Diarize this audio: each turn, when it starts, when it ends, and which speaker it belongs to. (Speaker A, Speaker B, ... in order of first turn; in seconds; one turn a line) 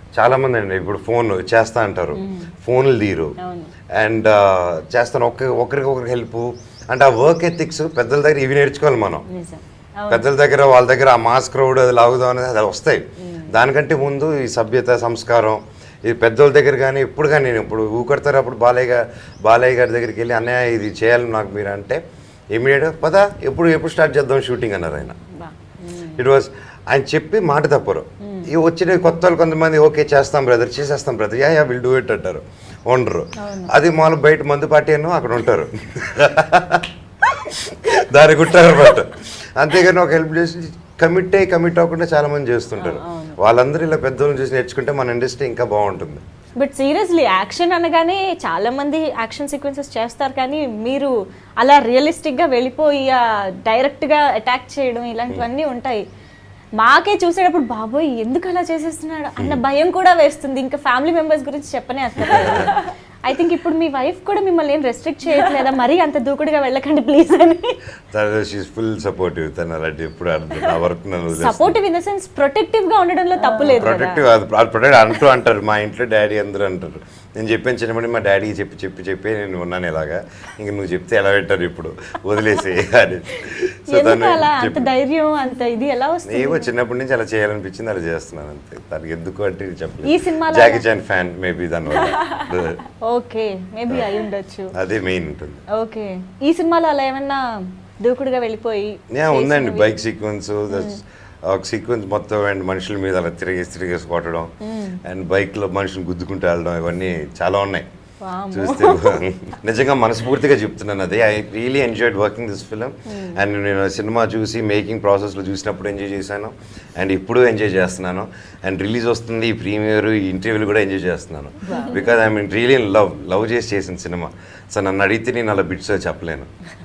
Speaker A: 0.1-3.3
Speaker B: 2.1-2.5
Speaker B: 3.4-3.7
Speaker A: 3.9-9.2
Speaker B: 9.3-10.2
Speaker A: 10.1-22.0
Speaker B: 13.2-13.5
Speaker A: 22.5-25.2
Speaker B: 25.3-26.2
Speaker A: 26.1-46.2
Speaker B: 28.2-28.5
Speaker B: 33.4-33.7
Speaker B: 42.8-43.4
Speaker B: 46.6-56.0
Speaker B: 56.8-67.8
Speaker A: 62.2-62.7
Speaker A: 68.1-71.8
Speaker B: 71.3-74.2
Speaker A: 73.6-84.9
Speaker B: 83.9-86.7
Speaker A: 86.2-92.8
Speaker B: 90.0-90.8
Speaker B: 92.0-94.7
Speaker A: 94.7-95.6
Speaker B: 95.7-99.9
Speaker A: 99.1-104.5
Speaker B: 100.7-101.0
Speaker B: 104.6-105.0
Speaker A: 105.0-107.8
Speaker B: 108.2-109.2
Speaker A: 108.5-126.5
Speaker B: 113.1-113.4
Speaker B: 121.7-122.1